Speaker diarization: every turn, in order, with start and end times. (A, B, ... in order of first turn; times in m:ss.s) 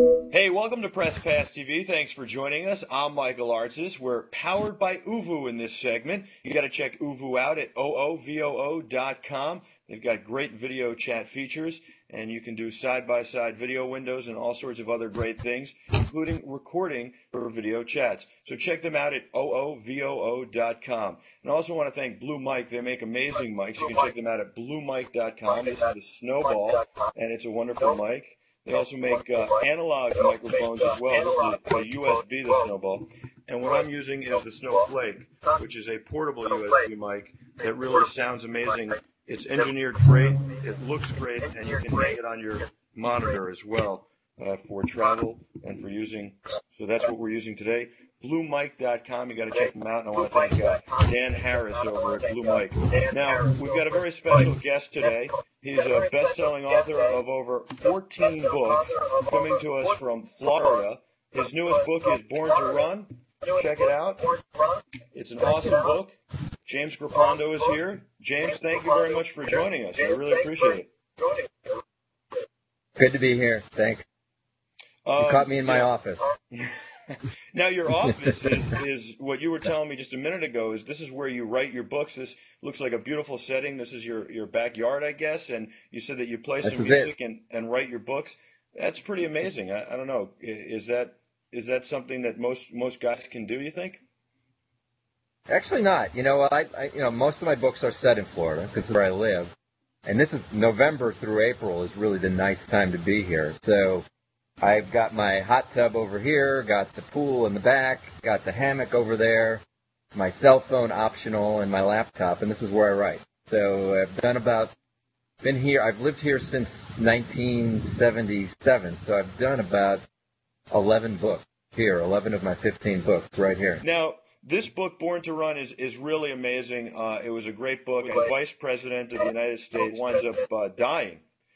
0:00.3-1:04.3 A
1:05.1-1:06.1 A
1:06.6-1:10.9 A
1:13.0-1:14.0 B
1:15.0-1:15.9 A
1:15.2-1:16.3 B
1:16.6-1:34.0 A
1:26.6-1:27.1 B
1:35.5-1:39.5 B
1:40.0-1:44.0 B
1:44.6-1:49.6 B
1:50.1-1:54.7 B
1:55.4-2:00.0 B
2:00.7-2:03.8 B
2:03.8-2:11.2 A